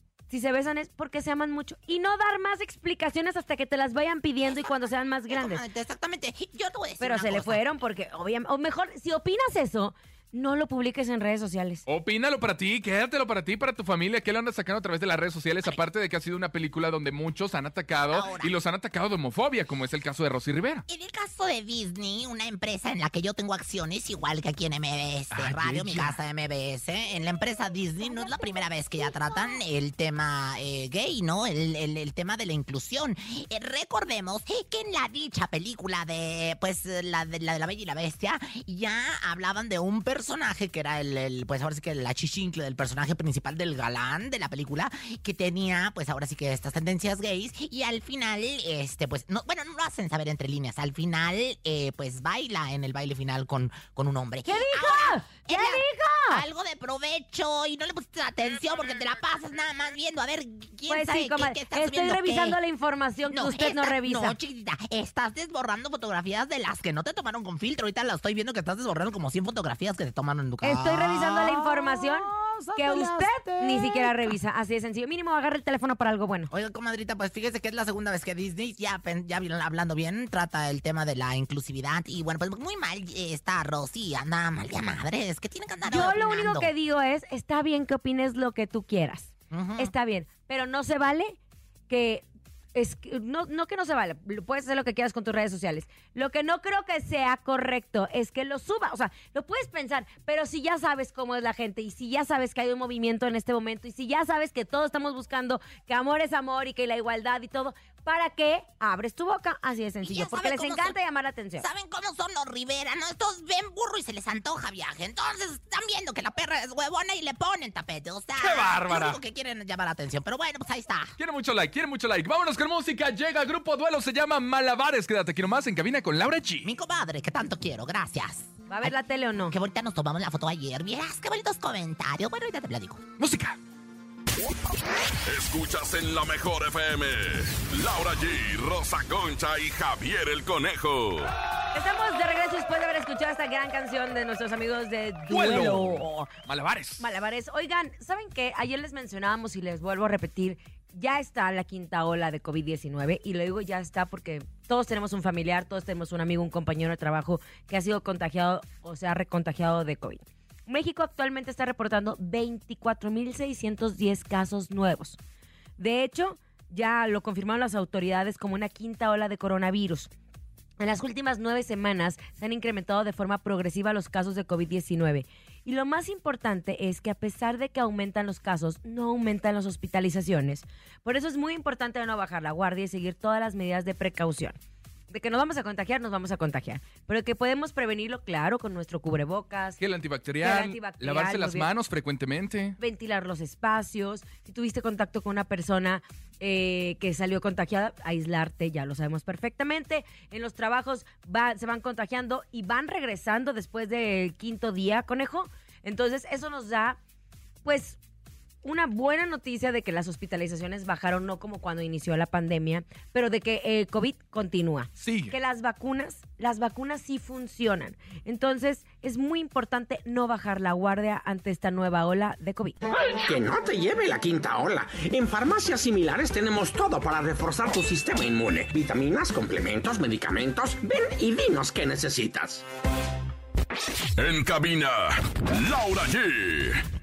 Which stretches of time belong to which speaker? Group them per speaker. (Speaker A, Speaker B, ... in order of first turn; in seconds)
Speaker A: 0.3-5.6, 7.0-11.8, 54.5-56.4, 60.9-64.4, 70.6-76.5, 85.8-91.4, 91.9-111.7, 128.7-129.6, 141.7-146.3, 147.0-165.2, 165.8-170.1, 170.8-184.6, 185.1-189.8, 190.4-191.7, 192.8-207.0, 207.7-208.0, 208.6-222.8
Speaker B: 5.3-7.7, 18.0-18.6, 20.9-62.6, 63.3-74.3, 76.5-86.7, 89.5-89.9, 110.0-111.0, 111.6-121.1, 126.6-128.9, 129.5-133.0
Speaker C: 11.9-20.8, 25.3-26.2, 118.4-119.2, 121.2-126.7, 133.2-133.6, 145.3-147.1, 189.8-192.8, 215.0-215.3
Speaker D: 135.3-141.3, 234.2-236.8
Speaker E: 223.0-232.6